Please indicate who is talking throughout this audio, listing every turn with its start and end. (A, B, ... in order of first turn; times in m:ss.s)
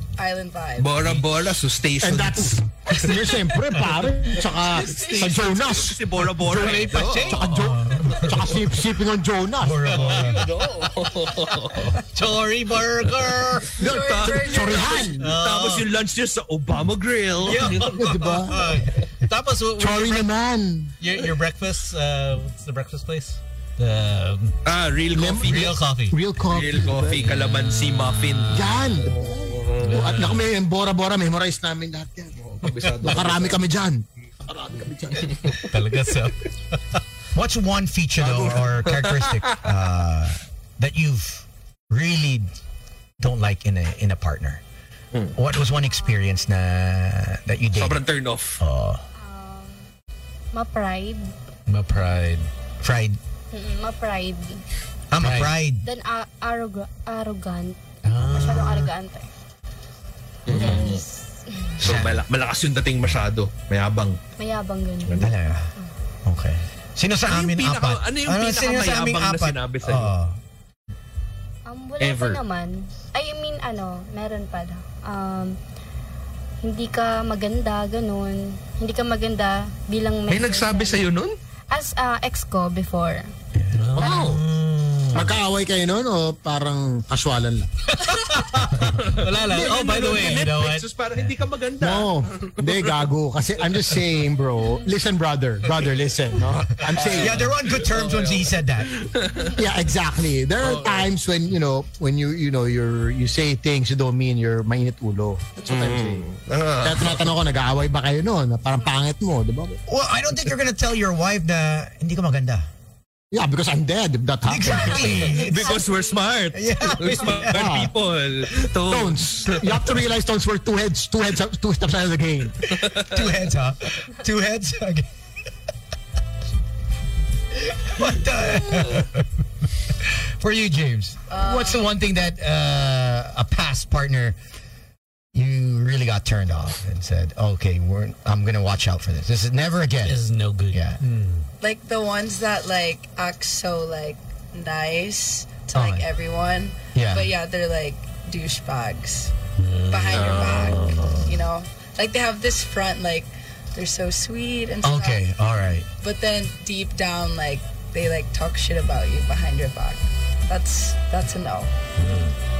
0:00.2-0:01.0 A
0:00.8-0:02.9 B
0:01.0-0:01.2 C
0:02.0-0:09.9 D
0:04.4-0:05.5 A
0:04.6-0:07.6 B
0:06.4-0:07.7 C
0:07.5-0:08.5 E
0:09.6-0:10.5 E
0:09.9-0:12.0 B
0:12.1-0:13.8 C
0:13.8-0:15.1 A
0:13.8-0:15.3 D
0:13.8-0:18.1 B
0:15.2-0:15.8 C
0:17.4-0:20.3 C
0:17.7-0:18.8 D
0:19.8-0:20.9 D
0:21.0-0:24.6 C
0:24.6-0:25.8 B
0:25.1-0:27.2 D
0:25.4-0:26.2 C
0:26.5-0:30.0 B
0:27.1-0:29.1 C
0:28.5-0:32.4 D
0:29.8-0:30.5 C
0:32.4-0:33.6 B
0:33.0-0:35.5 D
0:35.2-0:35.6 B
0:35.6-0:37.0 C
0:37.3-0:42.5 E
0:38.2-0:39.6 B
0:43.2-0:44.6 E
0:45.3-0:48.0 E
0:45.8-0:46.4 F
0:47.7-0:48.6 B
0:48.6-0:49.0 E
0:49.2-0:49.9 F
0:50.5-0:51.2 F
0:51.7-0:52.5 C
0:52.8-0:53.2 E
0:53.5-0:54.6 F
0:55.1-0:55.8 E
0:55.2-0:55.5 C
0:55.8-0:57.8 F
0:58.0-0:58.9 C
0:58.2-0:58.9 E
0:58.3-0:59.3 F
1:00.4-1:01.0 B
1:00.5-1:01.8 F
1:01.8-1:04.2 B
1:01.8-1:02.2 E
1:04.4-1:05.9 F
1:05.0-1:05.3 B
1:05.2-1:05.7 E
1:06.2-1:10.4 E
1:07.3-1:10.1 B
1:11.6-1:15.6 F
1:12.0-1:12.4 B
1:16.6-1:21.1 F
1:20.3-1:21.4 B
1:21.7-1:23.3 F
1:23.5-1:23.8 E
1:23.7-1:25.4 C
1:24.0-1:24.4 D
1:24.0-1:24.3 B
1:25.1-1:27.7 D
1:27.9-1:30.8 C
1:28.8-1:33.0 B
1:31.8-1:37.4 D
1:36.4-1:39.5 B
1:37.0-1:39.0 E
1:39.5-1:46.2 D
1:40.6-1:41.1 B
1:45.7-1:47.3 B
1:46.8-1:49.8 D
1:49.9-1:52.7 E
1:53.3-1:55.2 D
1:54.4-1:55.8 E
1:54.7-1:56.3 F
1:55.2-2:00.0 B
1:56.5-1:57.7 E
1:57.5-1:57.9 D
1:58.9-2:02.6 D
2:02.8-2:05.1 E
2:02.8-2:03.1 B
2:07.6-2:09.2 E
2:10.0-2:14.4 E
2:11.3-2:11.9 A
2:15.3-2:21.0 E
2:20.0-2:21.5 C
2:21.6-2:29.3 A
2:25.7-2:26.1 E
2:26.9-2:27.3 E
2:29.6-2:30.5 C
2:29.9-2:35.2 A
2:30.1-2:30.7 B
2:30.5-2:31.4 E
2:34.8-2:35.9 E
2:36.0-2:41.7 A
2:42.0-2:42.3 C